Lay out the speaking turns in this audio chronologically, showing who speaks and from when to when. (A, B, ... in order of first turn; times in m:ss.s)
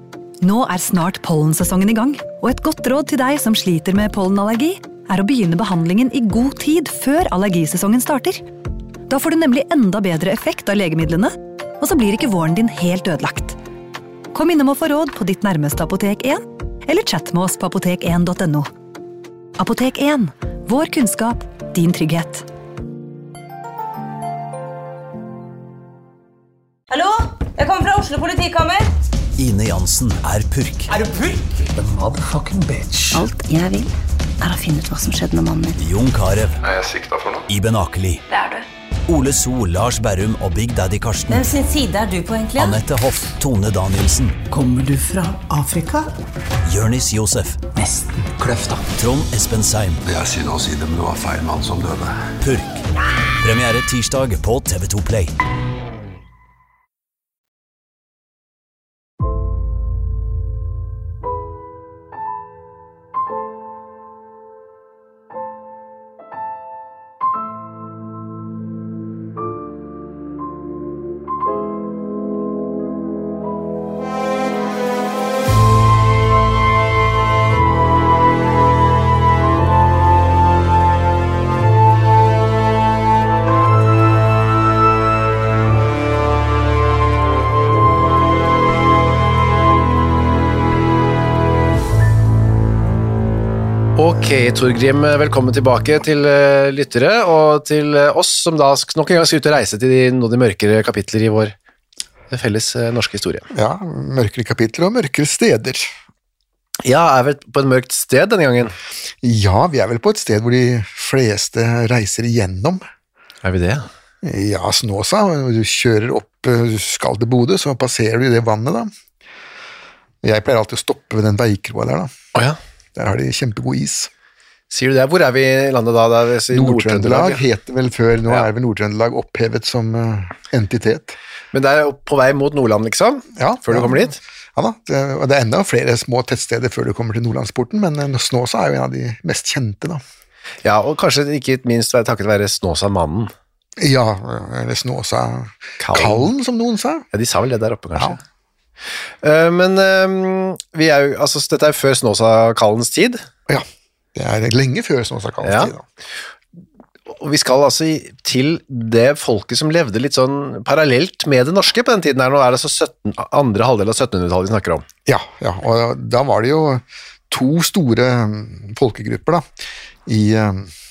0:00.4-0:08.4 A
0:09.1-0:13.6 A
0:14.3-0:18.7 A
0:19.6-0:22.5 A
0:26.9-0:28.9 B
0:29.4-0:31.0 C
0:31.0-0:31.6 B
0:31.7-0:33.1 D
0:33.1-0:35.8 E
0:35.8-0:36.6 C
0:36.6-0:37.5 F
0:37.5-0:38.2 C
0:38.3-0:38.7 B
0:39.1-0:41.5 C
0:41.3-0:42.8 B
0:42.6-0:44.4 C
0:44.5-0:46.0 D
0:46.6-0:47.8 C
0:47.8-0:48.8 D
0:48.9-0:50.0 C
0:50.0-0:52.3 F
0:52.4-0:52.9 C
0:53.4-0:55.3 C
1:34.0-1:41.5 G
1:42.3-1:43.5 G
1:43.5-1:45.9 H
1:46.8-1:48.7 G
1:49.2-1:52.8 H
1:53.4-1:53.8 G
1:54.2-1:58.9 H
2:00.2-2:02.1 H
2:03.0-2:04.1 H
2:04.7-2:07.4 G
2:06.5-2:11.2 H
2:11.5-2:14.2 G
2:13.4-2:20.0 H
2:20.6-2:23.3 G
2:23.8-2:27.1 H
2:25.8-2:26.3 G
2:27.1-2:28.2 G
2:29.2-2:33.2 G
2:33.5-2:35.8 H
2:35.4-2:35.7 G
2:37.1-2:44.9 G
2:45.1-2:49.4 H
2:50.1-2:50.7 H